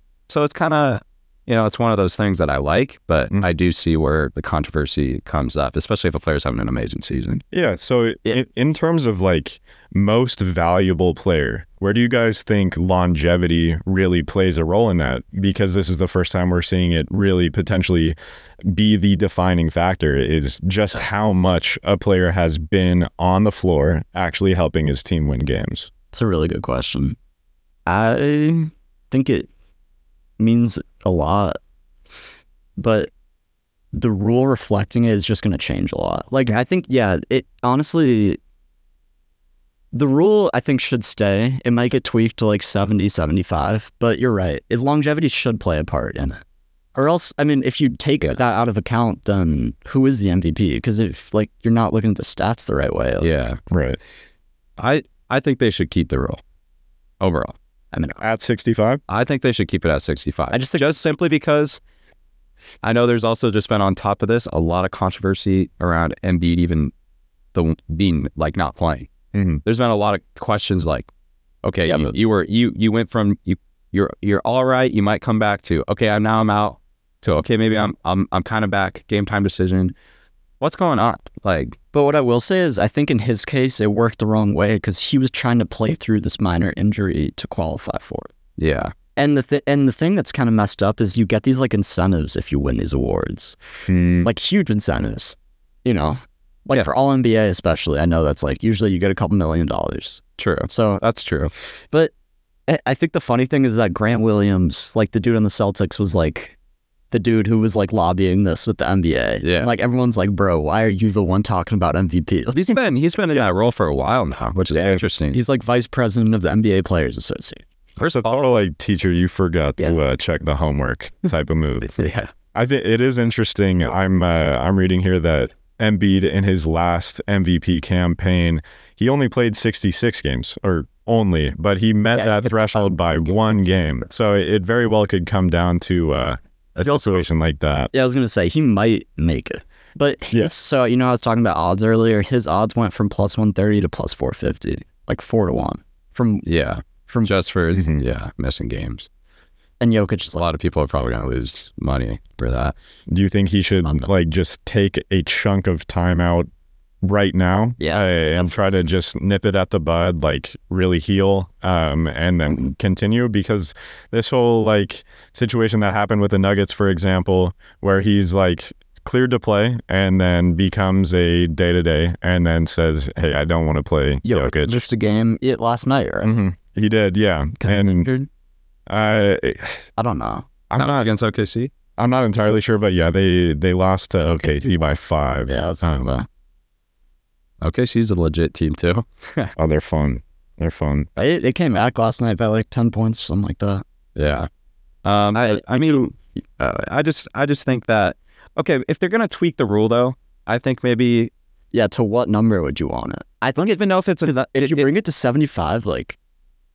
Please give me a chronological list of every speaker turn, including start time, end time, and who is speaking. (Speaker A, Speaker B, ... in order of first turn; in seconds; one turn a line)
Speaker A: 0.3-7.4
Speaker B: 7.5-25.9
Speaker C: 26.1-27.2
Speaker C: 27.9-29.5
Speaker C: 30.4-31.6
Speaker C: 32.8-33.1
Speaker C: 33.9-38.4
Speaker C: 39.9-46.4
Speaker C: 46.9-53.4
Speaker A: 53.2-53.6
Speaker B: 53.7-54.0
Speaker A: 54.8-56.4
Speaker A: 57.2-57.5
Speaker C: 57.9-58.2
Speaker B: 58.2-59.0
Speaker A: 59.1-61.8
Speaker C: 60.5-60.9
Speaker A: 62.8-66.9
Speaker A: 67.5-69.1
Speaker B: 69.3-69.6
Speaker A: 69.6-71.1
Speaker A: 71.6-79.9
Speaker C: 71.9-72.2
Speaker A: 80.6-81.8
Speaker C: 81.9-88.3
Speaker A: 88.6-88.9
Speaker C: 89.2-93.5
Speaker B: 93.9-94.3
Speaker C: 94.2-101.0
Speaker A: 100.4-101.5
Speaker C: 102.7-106.5
Speaker C: 107.1-112.7
Speaker A: 109.4-109.7
Speaker A: 112.5-115.4
Speaker C: 115.3-117.6
Speaker A: 118.0-118.4
Speaker B: 118.3-122.0
Speaker A: 121.9-122.3
Speaker B: 122.5-137.9
Speaker C: 137.9-146.4
Speaker A: 146.4-149.1
Speaker C: 147.1-147.3
Speaker B: 147.7-148.0
Speaker C: 149.8-150.4
Speaker A: 150.3-152.7
Speaker B: 153.1-156.5
Speaker B: 157.0-174.8
Speaker C: 157.8-158.6
Speaker C: 174.2-176.3
Speaker B: 176.2-178.1
Speaker C: 177.6-178.3
Speaker B: 178.9-179.8
Speaker C: 180.0-180.5
Speaker B: 180.7-181.1
Speaker A: 180.8-181.7
Speaker B: 182.0-186.1
Speaker C: 185.5-186.3
Speaker A: 187.6-189.5
Speaker B: 189.6-191.2
Speaker C: 191.2-193.8
Speaker A: 194.2-194.5
Speaker A: 195.0-201.3
Speaker C: 195.3-196.1
Speaker C: 201.7-206.2
Speaker A: 203.6-204.9